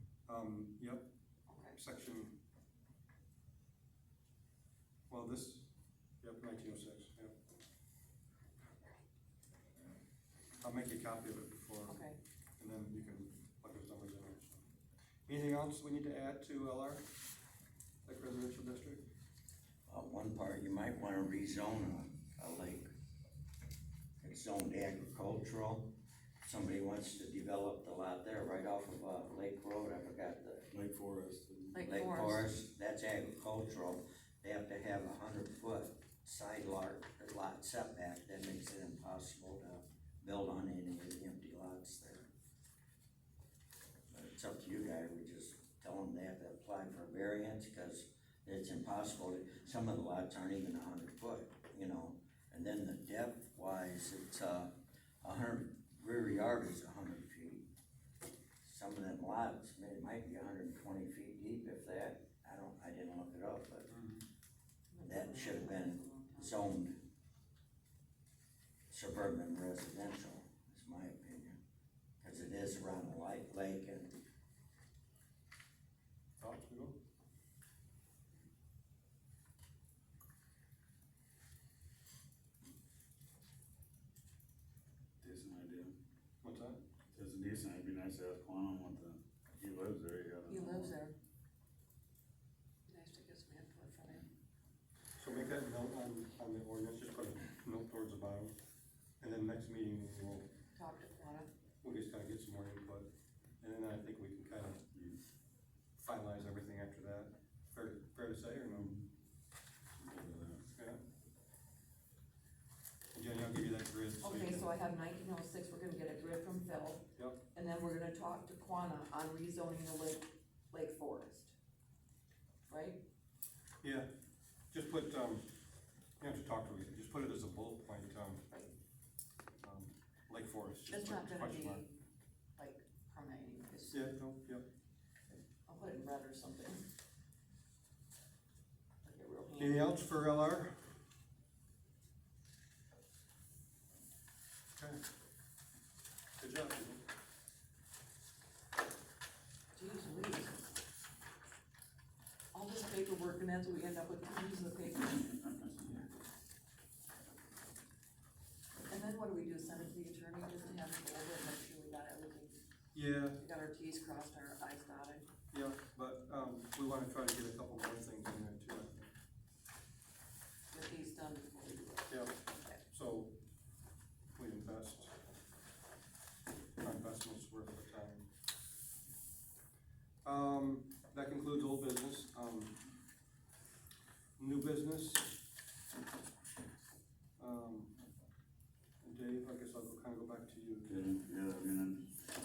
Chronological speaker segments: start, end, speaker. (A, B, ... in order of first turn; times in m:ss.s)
0:00.3-0:01.1 A
0:01.5-0:01.8 B
0:01.7-0:02.4 A
0:05.1-0:07.4 A
0:10.6-0:12.0 A
0:11.9-0:12.2 B
0:12.6-0:14.6 A
0:15.3-0:17.1 A
0:18.0-0:19.0 A
0:19.9-0:22.9 C
0:24.2-0:30.7 C
0:30.7-0:31.8 D
0:31.7-0:32.5 B
0:31.8-0:42.3 C
0:44.1-0:57.6 C
0:58.6-1:03.9 C
1:03.9-1:04.2 A
1:04.9-1:06.6 B
1:05.1-1:07.0 C
1:08.9-1:11.6 C
1:12.2-1:14.2 C
1:16.4-1:17.0 A
1:25.2-1:25.9 D
1:26.4-1:26.8 A
1:27.1-1:31.0 D
1:30.5-1:31.2 B
1:32.9-1:34.3 B
1:35.2-1:38.5 A
1:39.2-1:40.5 A
1:40.7-1:41.5 B
1:41.8-1:43.1 A
1:43.6-1:44.8 A
1:46.0-1:48.9 A
1:48.7-1:49.0 D
1:50.0-1:50.6 D
1:53.1-1:54.7 A
1:54.2-2:01.5 B
2:02.7-2:03.0 B
2:03.8-2:04.1 A
2:04.7-2:05.4 A
2:06.2-2:08.4 A
2:09.6-2:11.8 A
2:10.9-2:12.0 B
2:12.6-2:14.2 B
2:13.9-2:14.7 A
2:15.7-2:16.9 B
2:19.0-2:19.9 B
2:19.6-2:20.7 A
2:24.8-2:25.0 A
2:26.4-2:27.0 A
2:29.8-2:30.7 B
2:32.5-2:35.5 B
2:38.9-2:42.6 B
2:42.9-2:43.4 A
2:43.3-2:45.3 B
2:45.5-2:49.1 A
2:50.7-2:52.8 B
2:52.1-2:53.4 A
2:54.4-2:55.2 A
2:56.8-2:58.3 A
3:00.2-3:02.8 A
3:04.4-3:05.3 A
3:07.4-3:08.0 A
3:09.0-3:10.9 A
3:10.8-3:12.1 D